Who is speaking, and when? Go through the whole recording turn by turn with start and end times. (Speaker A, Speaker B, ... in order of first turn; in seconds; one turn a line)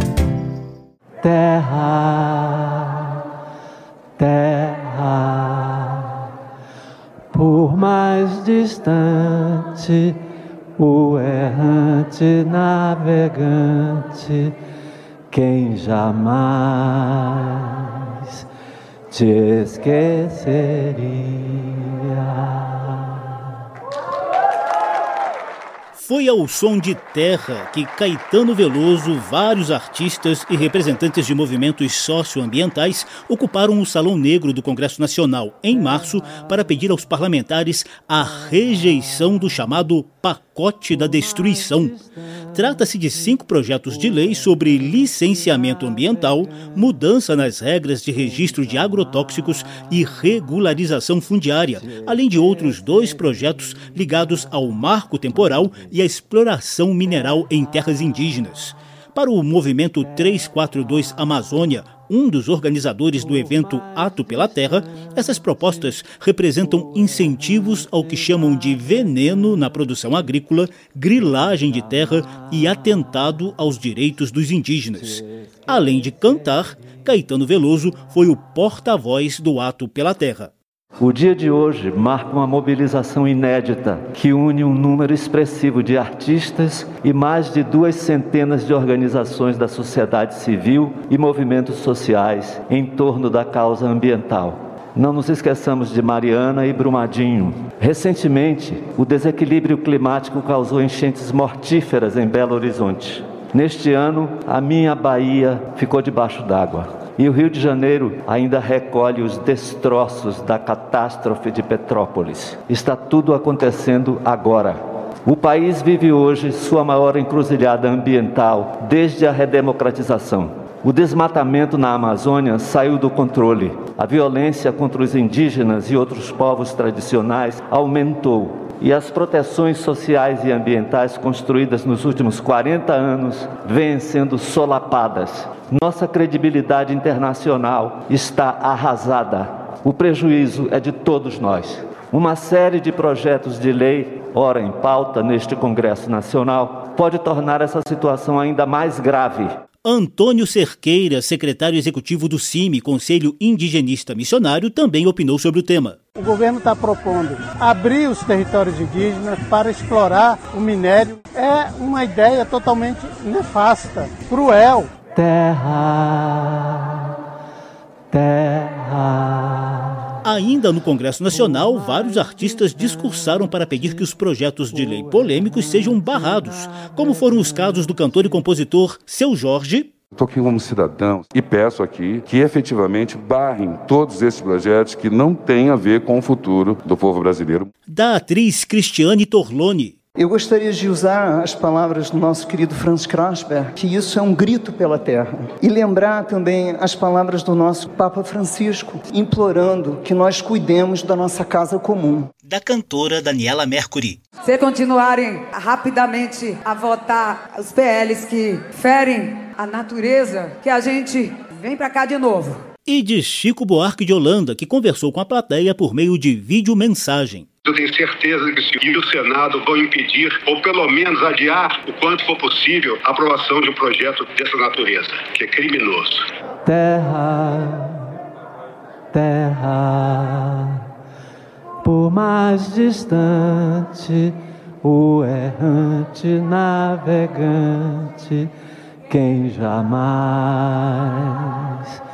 Speaker A: 1.2-3.0
Speaker A: 4.2-6.1
Speaker A: 7.3-10.1
Speaker A: 10.8-14.5
Speaker A: 15.3-17.4
Speaker A: 19.1-22.9
Speaker B: 25.9-42.0
Speaker B: 42.5-80.5
Speaker A: 81.0-149.6
Speaker B: 149.9-156.0
Speaker C: 156.2-164.9
Speaker A: 165.2-166.9
Speaker A: 168.1-169.7
Speaker B: 170.2-179.9
Speaker D: 180.2-187.7
Speaker B: 187.9-189.9
Speaker E: 190.2-202.3
Speaker B: 202.5-204.2
Speaker F: 204.4-212.6
Speaker B: 212.9-217.5
Speaker G: 217.7-226.2
Speaker A: 226.7-227.9
Speaker A: 229.1-230.7
Speaker A: 231.8-234.3
Speaker A: 234.8-238.5
Speaker A: 239.1-241.3